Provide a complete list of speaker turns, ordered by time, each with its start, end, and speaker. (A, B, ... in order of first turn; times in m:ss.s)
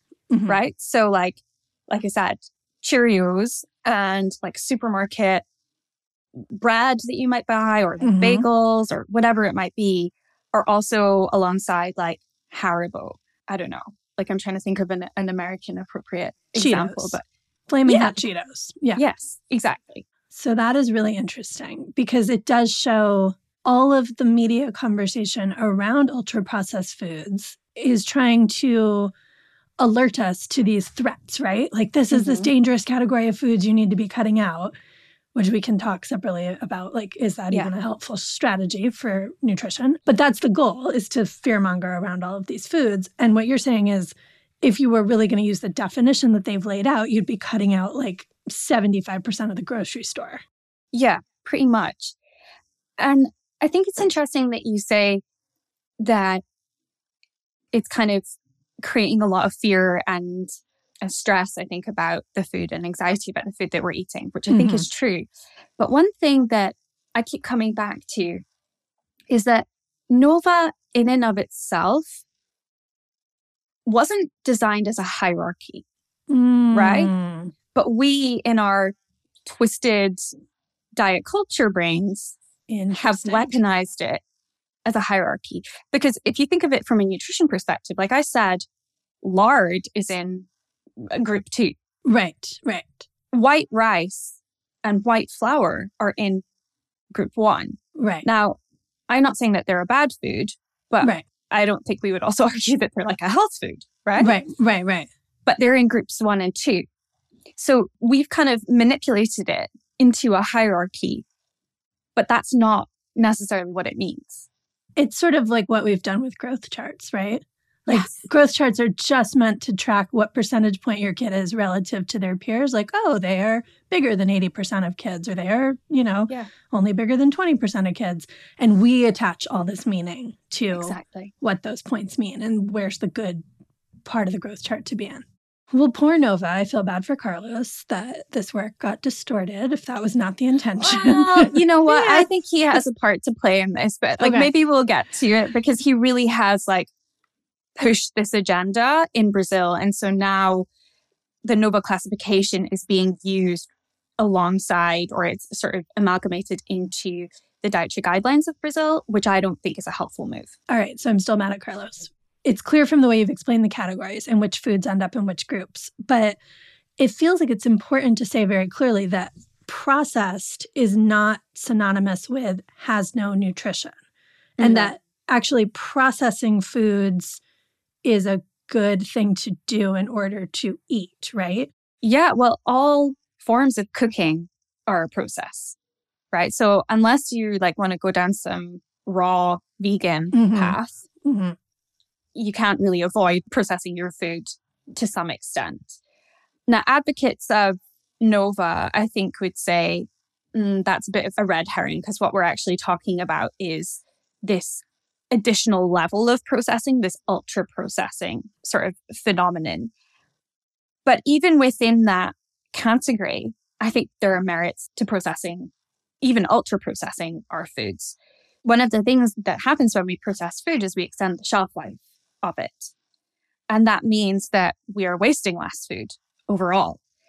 0:00.3-0:00.6 A
0:00.5-0:05.4 B
0:06.5-0:17.2 B
0:08.0-0:08.4 A
0:16.5-0:17.2 A
0:17.7-0:19.0 A
0:17.8-0:18.1 B
0:19.0-0:20.0 B
0:20.3-0:29.1 A
0:29.8-0:34.7 A
0:32.1-0:32.5 B
0:35.3-0:50.4 A
0:50.9-0:52.2 B
0:53.0-0:55.2 B
0:56.0-0:56.4 B
0:57.7-0:58.3 B
0:58.8-1:00.5 B
1:01.0-1:08.4 B
1:04.5-1:04.9 A
1:09.3-1:12.2 B
1:13.8-1:15.8 B
1:16.3-1:17.5 A
1:16.7-1:17.1 B
1:17.7-1:20.2 B
1:21.0-1:22.4 B
1:22.7-1:23.6 A
1:22.9-1:24.2 B
1:24.8-1:28.6 B
1:29.2-1:30.5 B
1:31.0-1:31.7 B
1:32.0-1:33.1 A
1:33.3-1:36.4 B
1:37.1-1:38.6 B
1:38.0-1:38.3 A
1:39.1-1:44.4 B
1:44.2-1:45.1 A
1:45.4-1:46.8 B
1:47.6-1:51.2 B
1:52.2-1:54.5 B
1:55.0-2:13.4 A
2:10.7-2:11.3 B
2:14.0-2:22.3 A
2:20.8-2:26.9 B
2:24.2-2:24.5 A
2:27.8-2:30.7 B
2:31.4-2:40.5 B
2:40.7-2:46.4 A
2:47.0-2:54.0 A
2:54.6-2:57.4 A
2:54.6-2:54.9 B
2:58.0-3:01.7 A
3:02.0-3:05.8 B
3:06.3-3:11.0 B
3:10.3-3:11.6 A
3:12.3-3:16.0 B
3:16.7-3:29.9 B
3:31.0-3:42.9 B
3:43.7-3:47.0 B